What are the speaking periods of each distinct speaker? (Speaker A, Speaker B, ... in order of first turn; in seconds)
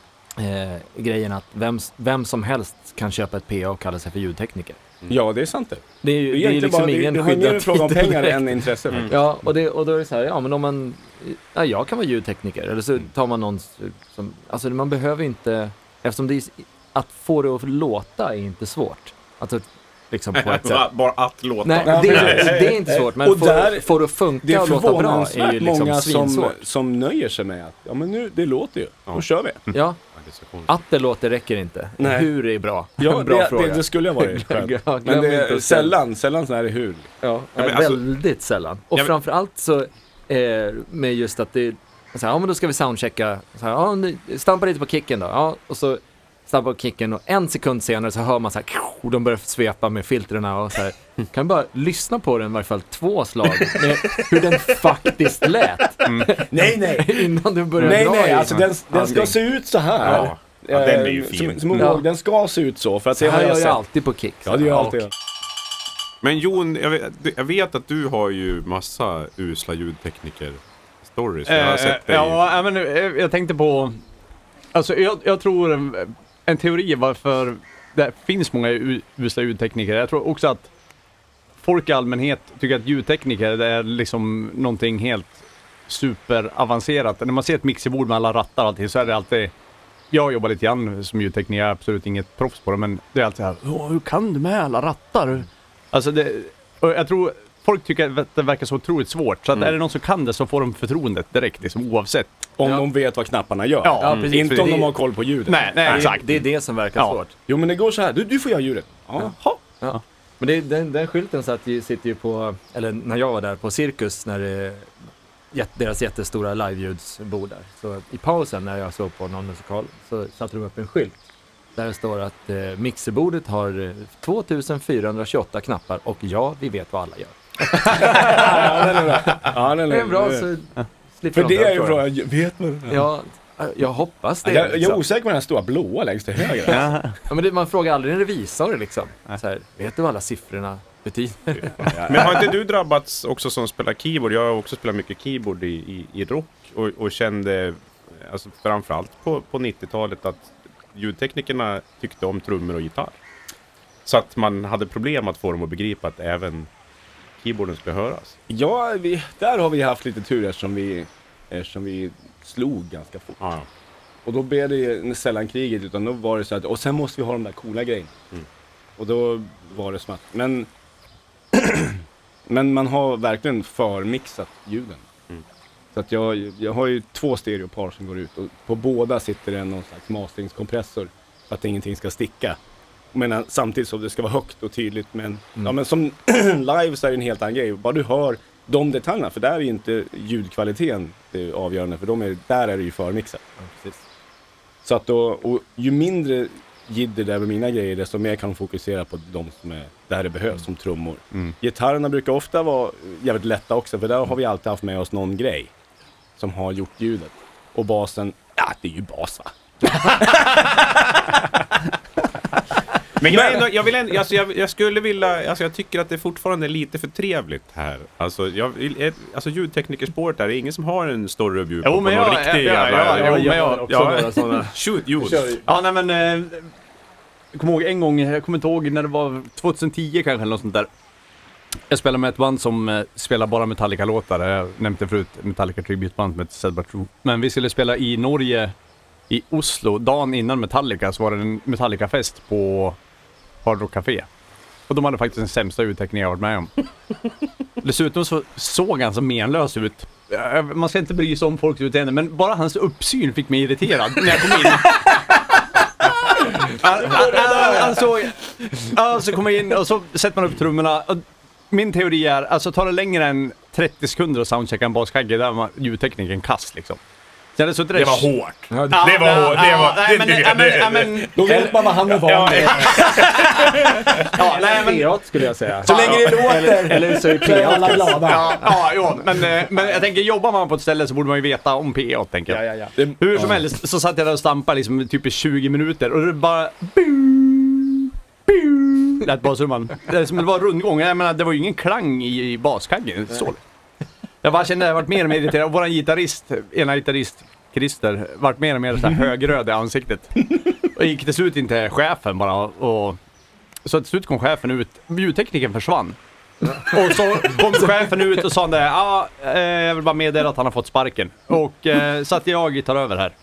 Speaker A: 0.4-4.8, 6.0-20.9, 21.6-26.6, 29.7-30.0, 30.7-36.0, 37.2-59.4, 61.7-62.0, 63.2-65.1, 104.0-104.9, 105.8-107.3, 109.8-115.0, 115.5-121.2, 121.8-132.0, 132.9-135.0, 137.3-141.9, 193.6-194.0, 223.1-225.6, 268.7-269.2, 274.4-278.6, 282.5-282.9, 306.6-307.6
Speaker B: 5.1-9.2, 21.8-29.6, 32.0-32.3, 33.0-37.1, 53.8-54.4, 56.3-63.8, 64.5-65.1, 102.6-106.2, 107.0-109.6, 127.8-130.5, 131.3-133.0, 134.4-137.0, 141.6-142.6, 158.5-163.4, 164.2-168.2, 169.0-170.7, 171.5-175.0, 175.9-182.6, 183.1-193.4, 194.8-205.7, 206.4-211.4, 213.2-213.7, 256.8-258.1, 271.3-274.3, 275.8-278.6, 282.9-283.6
Speaker C: 8.9-9.1, 20.3-22.8, 29.1-30.7, 37.6-38.0, 60.0-61.6, 66.2-72.4, 104.1-104.4, 142.1-153.2, 154.1-156.7, 157.4-158.4, 163.4-163.7, 213.2-225.6, 267.9-274.5
Speaker D: 56.0-56.3, 57.8-58.5, 71.5-74.0, 74.7-80.7, 81.6-89.5, 90.1-102.3, 103.8-104.2, 105.5-106.3, 136.7-137.2, 221.8-224.7, 225.6-226.7, 227.5-230.9, 231.9-238.7, 239.3-243.0, 243.6-244.3, 244.9-246.7, 247.8-267.0, 267.5-268.3, 268.9-271.7, 272.9-275.1, 275.8-276.8, 277.5-282.6, 283.2-293.6, 294.4-303.2, 303.8-306.2, 306.8-313.3